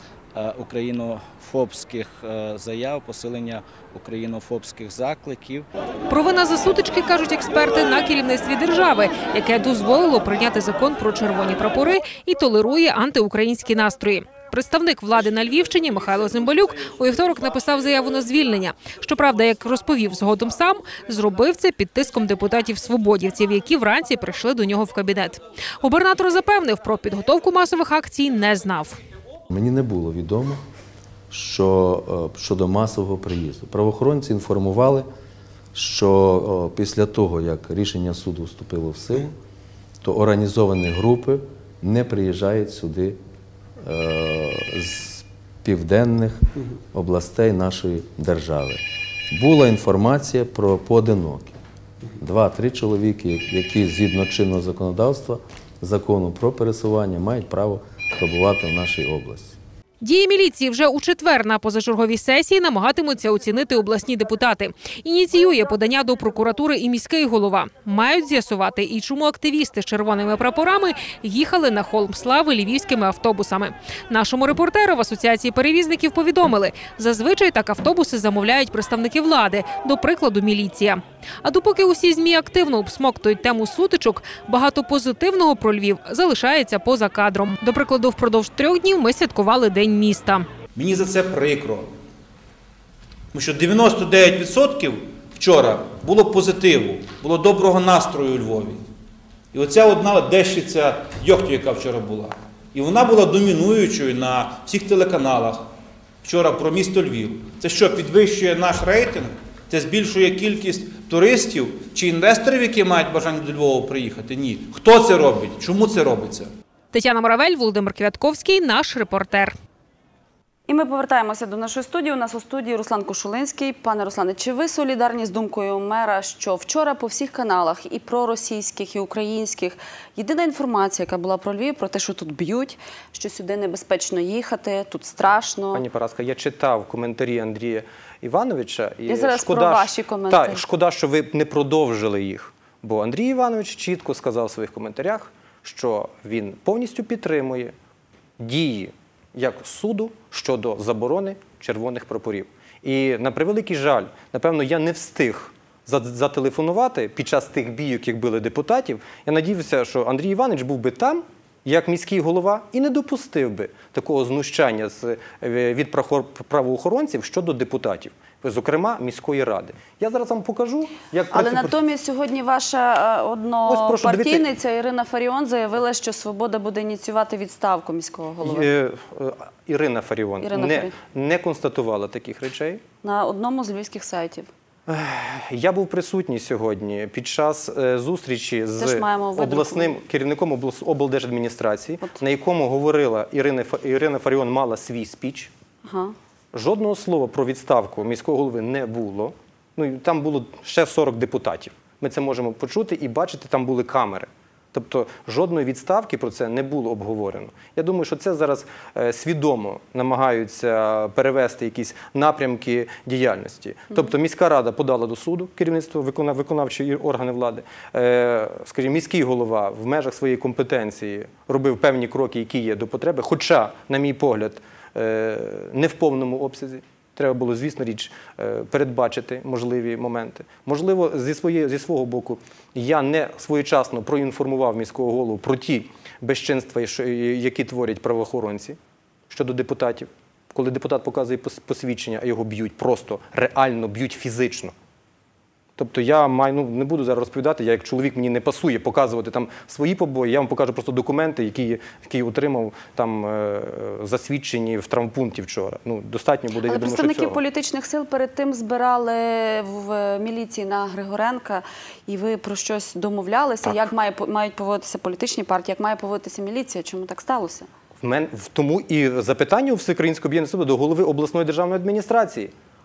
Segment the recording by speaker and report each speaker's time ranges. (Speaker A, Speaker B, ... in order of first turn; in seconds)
Speaker A: 0.4-5.6
Speaker B: 6.1-29.0, 60.0-90.5, 116.9-119.5
Speaker C: 29.5-30.6, 31.3-35.1, 35.7-39.3, 40.0-43.2, 43.8-51.6, 52.2-59.6
Speaker D: 90.8-91.9, 93.3-98.8, 99.5-105.7, 106.2-116.5
Speaker E: 120.7-135.8, 139.1-140.6, 171.3-178.7, 180.4-180.9, 183.0-184.5, 188.8-189.9, 195.8-196.1, 256.6-267.7
Speaker F: 135.7-147.7, 148.4-171.7, 173.7-174.4, 178.4-182.8, 184.9-195.5, 196.5-238.8, 239.3-244.7, 245.8-257.4, 268.0-272.5